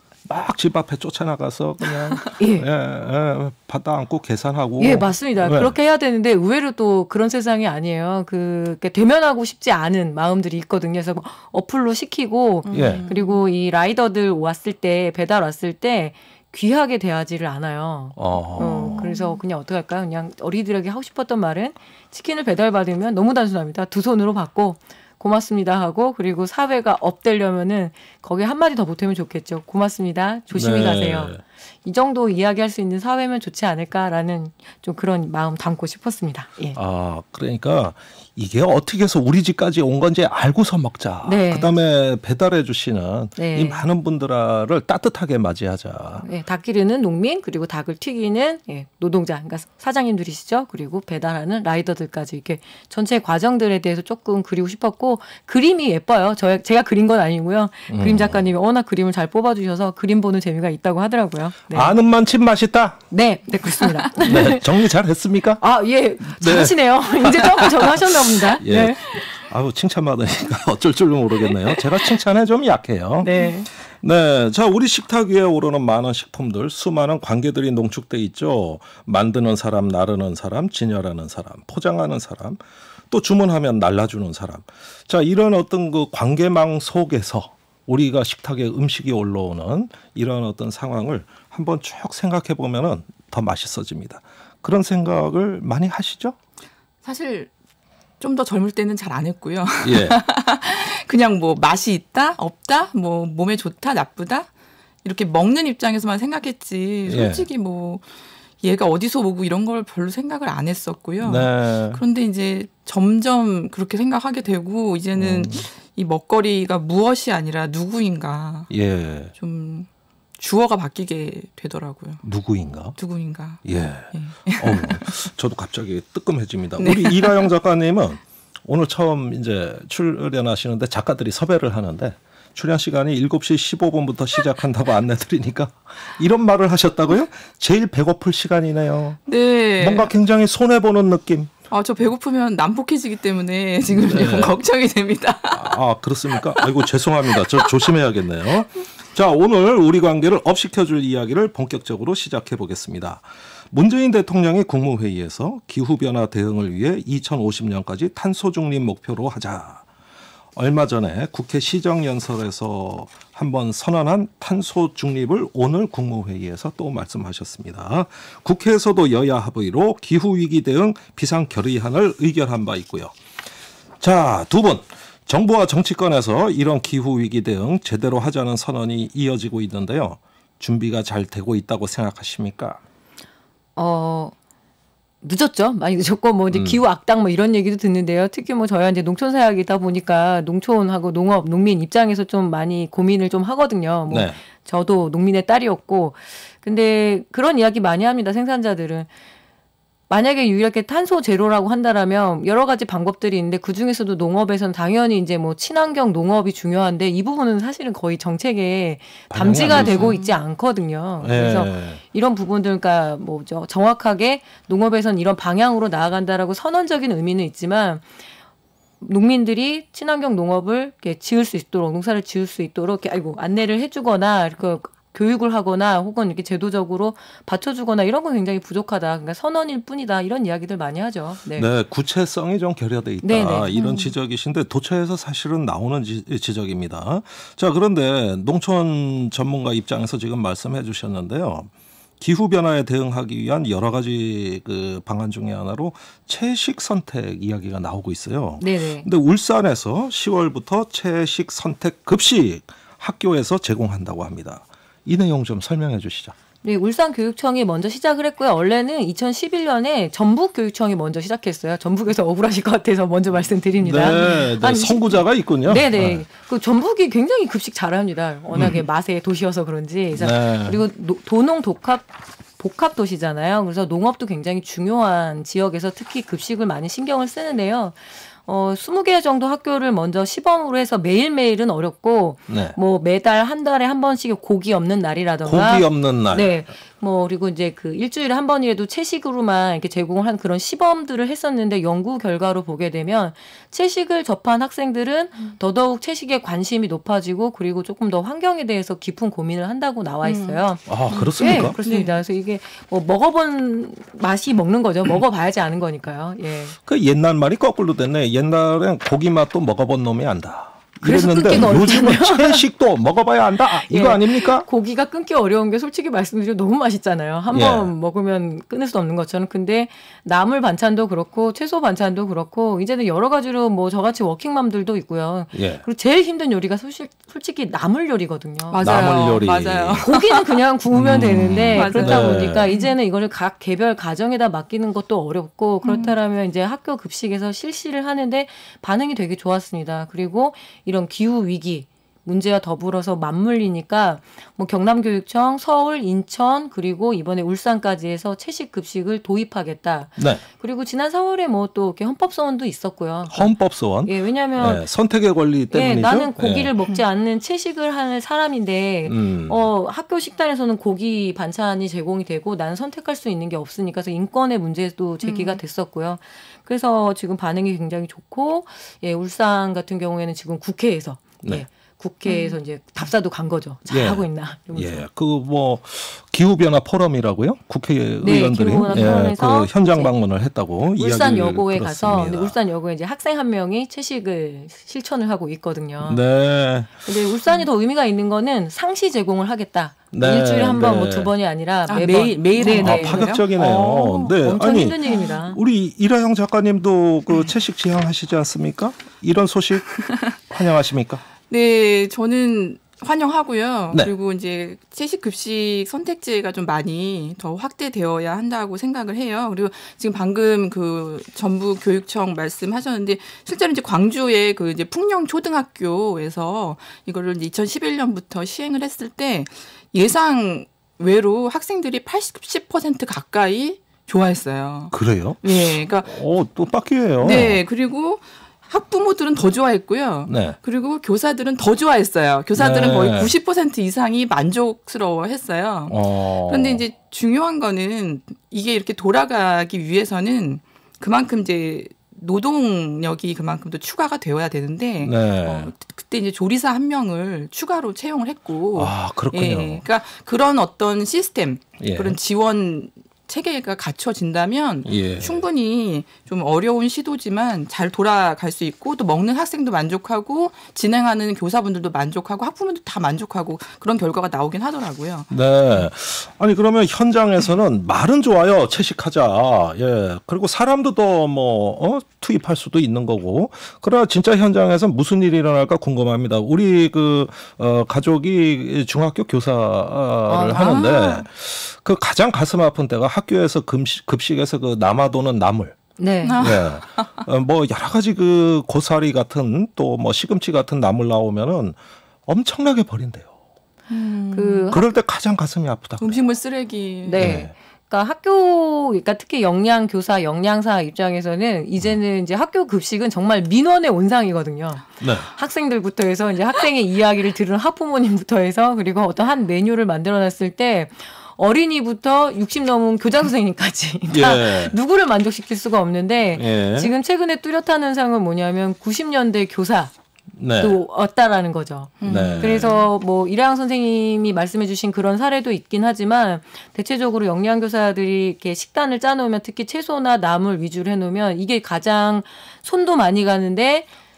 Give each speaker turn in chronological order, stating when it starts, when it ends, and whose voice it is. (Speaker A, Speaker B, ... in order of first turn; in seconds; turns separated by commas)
Speaker A: 0.3-5.8, Speaker B: 2.4-2.7, Speaker B: 4.8-36.8, Speaker C: 12.7-13.4, Speaker A: 12.7-13.1, Speaker A: 18.2-19.1, Speaker C: 18.6-19.4, Speaker A: 30.5-31.4, Speaker A: 36.8-46.2, Speaker B: 41.2-41.7, Speaker B: 43.4-43.9, Speaker B: 46.2-61.9, Speaker A: 57.9-58.5, Speaker A: 61.7-63.0, Speaker B: 63.1-64.7, Speaker A: 64.2-65.6, Speaker B: 65.6-69.0, Speaker A: 66.3-73.3, Speaker B: 73.2-73.7, Speaker A: 74.0-96.4, Speaker C: 97.0-97.5, Speaker C: 98.2-104.5, Speaker A: 99.8-100.2, Speaker C: 105.0-108.0, Speaker A: 107.1-107.5, Speaker C: 108.6-118.7, Speaker A: 111.2-112.0, Speaker A: 115.2-115.7, Speaker A: 118.7-119.3, Speaker C: 119.4-122.2, Speaker A: 122.2-123.0, Speaker C: 123.0-125.2, Speaker A: 123.7-139.2, Speaker C: 126.8-127.5, Speaker C: 139.3-140.1, Speaker A: 139.8-141.5, Speaker C: 141.7-145.8, Speaker A: 144.0-144.6, Speaker A: 145.5-159.8, Speaker C: 146.3-147.9, Speaker A: 160.6-173.1, Speaker A: 174.0-182.8, Speaker B: 183.8-184.3, Speaker B: 185.2-199.1, Speaker A: 186.5-186.8, Speaker A: 194.1-194.4, Speaker B: 200.1-218.0, Speaker A: 209.3-210.1, Speaker C: 209.6-210.3, Speaker A: 211.2-212.0, Speaker B: 219.0-231.7, Speaker A: 231.6-256.4, Speaker B: 233.2-233.7, Speaker C: 233.7-234.1, Speaker B: 248.6-249.1, Speaker B: 256.6-306.8, Speaker A: 263.8-266.2, Speaker A: 268.5-268.8, Speaker A: 270.1-270.8, Speaker A: 282.5-282.8, Speaker A: 285.4-286.5, Speaker C: 300.2-302.1, Speaker A: 300.9-301.8, Speaker A: 306.9-314.7, Speaker B: 311.0-312.6, Speaker B: 313.9-329.1, Speaker A: 317.5-317.9, Speaker A: 325.5-325.8, Speaker C: 328.7-330.6, Speaker A: 328.8-330.1, Speaker B: 330.0-354.9, Speaker A: 330.9-332.7, Speaker C: 331.7-332.9, Speaker C: 335.8-336.1, Speaker A: 350.2-350.4, Speaker A: 353.3-356.7, Speaker B: 355.7-375.1, Speaker A: 359.1-359.7, Speaker C: 365.2-365.6, Speaker C: 372.2-372.6, Speaker A: 373.9-382.6, Speaker B: 378.2-380.1, Speaker B: 381.0-386.2, Speaker A: 386.0-386.9, Speaker B: 387.1-395.6, Speaker A: 390.1-391.3, Speaker C: 391.9-393.5, Speaker A: 392.6-401.2, Speaker C: 395.1-395.3, Speaker C: 399.9-400.4, Speaker C: 401.5-426.1, Speaker A: 424.9-427.6, Speaker C: 427.2-465.4, Speaker A: 430.3-430.6, Speaker A: 432.6-433.4, Speaker A: 435.9-436.8, Speaker A: 445.0-445.7, Speaker A: 448.8-449.8, Speaker A: 451.8-452.2, Speaker A: 454.9-455.4, Speaker A: 465.3-485.8, Speaker B: 480.3-481.2, Speaker C: 480.5-481.1, Speaker B: 486.0-486.5, Speaker C: 486.2-487.2, Speaker A: 486.4-491.8, Speaker A: 492.3-493.3, Speaker C: 493.9-494.8, Speaker B: 494.4-494.8, Speaker A: 494.7-496.2, Speaker C: 496.0-497.4, Speaker B: 497.1-519.9, Speaker A: 497.2-497.5, Speaker A: 505.0-505.3, Speaker A: 514.1-514.8, Speaker A: 516.4-516.9, Speaker A: 520.4-520.8, Speaker B: 520.6-533.9, Speaker C: 522.0-522.9, Speaker A: 522.0-522.7